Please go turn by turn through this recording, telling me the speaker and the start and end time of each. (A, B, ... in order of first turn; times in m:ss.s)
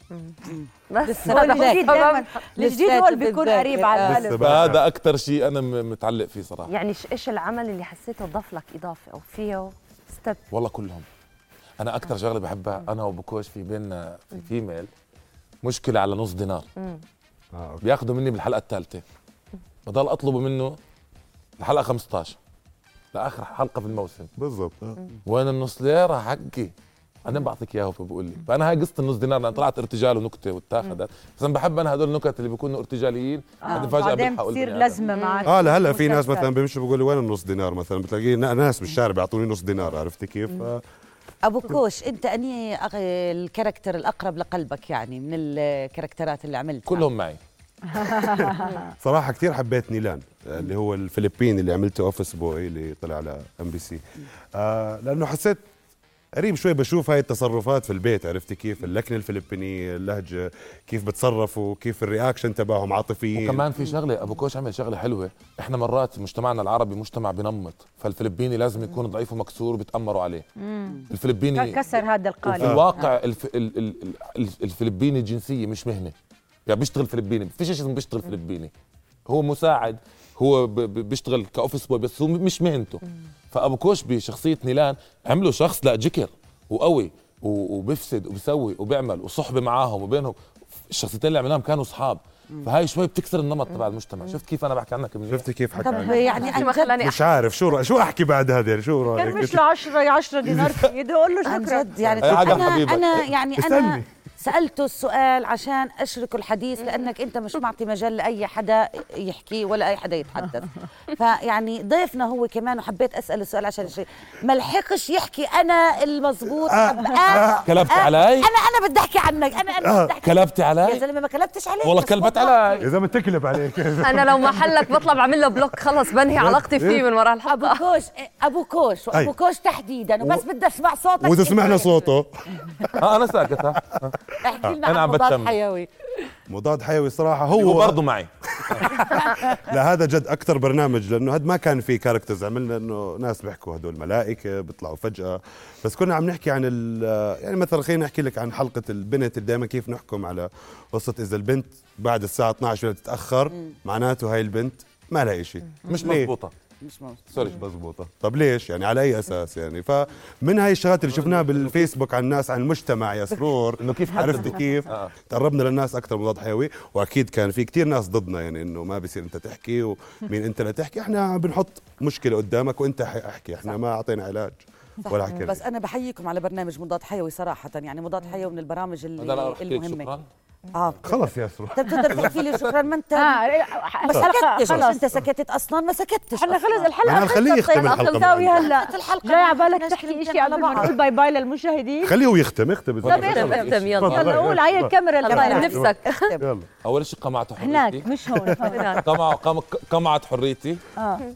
0:00.4-0:04.3 A
0:00.9-0:02.3 B
0:01.2-0:04.6 C
0:04.0-0:04.8 D
0:04.4-0:06.7 E
0:06.7-0:10.4 B
0:10.5-0:11.0 E
0:11.8-0:14.9 E
0:15.6-0:16.6 E
0:16.8-0:17.0 B
0:17.5-0:17.8 D
0:17.8-0:19.0 E
0:19.8-0:20.8 E
0:21.6-0:22.4 E
0:23.1-0:24.3 E
0:24.4-0:25.0 D
0:25.2-0:26.7 E
0:27.2-0:35.0 E
0:33.6-0:36.5 C
0:35.1-0:35.5 B
0:35.4-0:40.8 D
0:41.4-0:47.0 A
0:46.9-0:47.4 E
0:47.9-0:48.9 C
0:48.3-0:54.0 D
0:54.5-0:55.6 D
0:56.3-1:03.6 D
1:03.3-1:10.4 E
1:10.6-1:12.8 C
1:11.1-1:11.9 E
1:12.4-1:16.1 E
1:12.6-1:12.9 D
1:16.6-1:18.7 E
1:19.3-1:30.4 E
1:30.9-1:35.4 E
1:35.3-1:39.7 D
1:35.8-1:36.9 A
1:36.0-1:37.2 B
1:39.1-1:41.9 C
1:40.5-1:40.8 D
1:41.4-2:02.8 A
1:42.0-1:42.8 D
1:42.2-1:43.2 E
1:43.6-1:44.1 D
1:56.6-1:57.7 D
1:57.6-1:58.5 E
1:59.8-2:00.1 D
2:00.2-2:01.0 E
2:01.8-2:02.9 E
2:02.8-2:04.9 D
2:04.0-2:07.8 B
2:06.3-2:07.0 D
2:07.5-2:12.0 A
2:11.2-2:13.1 D
2:13.0-2:14.1 E
2:14.4-2:15.9 A
2:14.8-2:15.6 E
2:16.5-2:18.0 D
2:17.6-2:19.0 E
2:18.6-2:36.3 D
2:35.9-2:36.5 E
2:36.8-2:37.3 A
2:37.3-2:37.6 E
2:37.4-2:55.6 D
2:41.1-2:41.9 E
2:43.8-2:45.1 E
2:55.0-3:00.1 A
2:59.2-3:00.3 E
3:00.7-3:01.2 A
3:01.0-3:02.3 D
3:01.7-3:06.9 A
3:02.1-3:02.8 E
3:03.2-3:05.2 C
3:04.1-3:04.8 D
3:06.3-3:12.2 C
3:07.0-3:08.7 D
3:07.7-3:08.2 B
3:08.5-3:11.0 A
3:12.0-3:14.9 D
3:13.0-3:14.5 E
3:13.0-3:14.4 B
3:14.1-3:15.8 C
3:15.2-3:16.3 B
3:15.3-3:16.5 A
3:15.6-3:16.7 D
3:16.8-3:18.1 E
3:17.6-3:19.0 C
3:18.6-3:19.2 B
3:19.0-3:20.8 E
3:21.0-3:21.2 C